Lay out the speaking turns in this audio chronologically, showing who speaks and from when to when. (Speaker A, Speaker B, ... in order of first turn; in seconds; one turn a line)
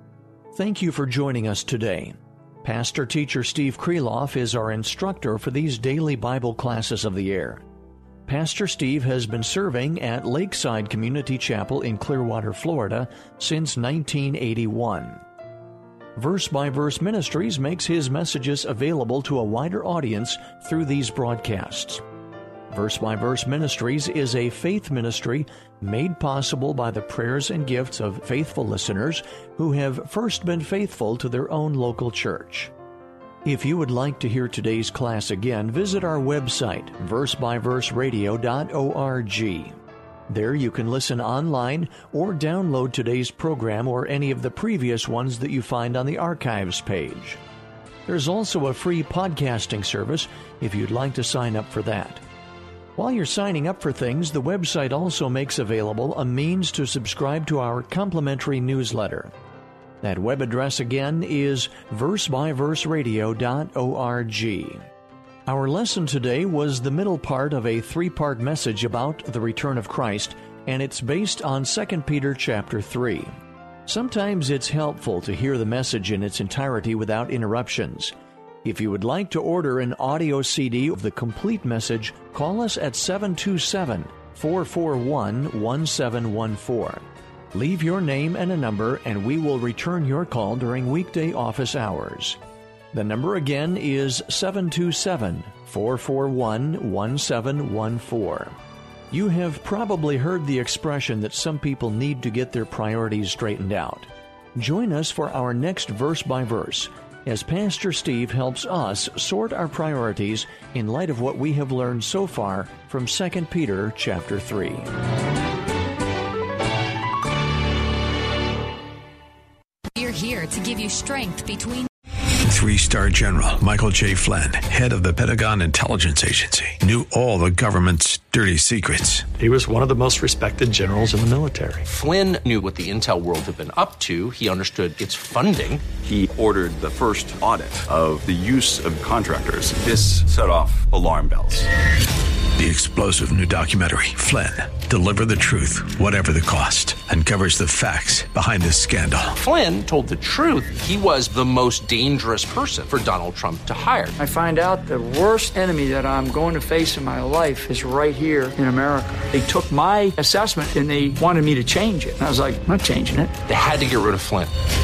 Speaker A: 0.5-7.6
Speaker A: 8.2-15.2
Speaker A: 16.1-22.0
Speaker A: 22.7-32.7
Speaker A: 33.4-47.4
Speaker A: 48.0-52.2
Speaker A: 53.0-59.3
Speaker A: 60.0-64.8
Speaker A: 65.5-92.4
Speaker A: 92.9-98.5
Speaker A: 99.1-114.9
Speaker B: 119.9-121.9
Speaker C: 122.4-129.3
Speaker D: 129.4-131.8
Speaker E: 131.9-135.8
Speaker F: 136.0-141.7
Speaker C: 142.6-149.4
Speaker E: 149.4-154.1
Speaker G: 154.2-163.3
Speaker E: 163.5-164.5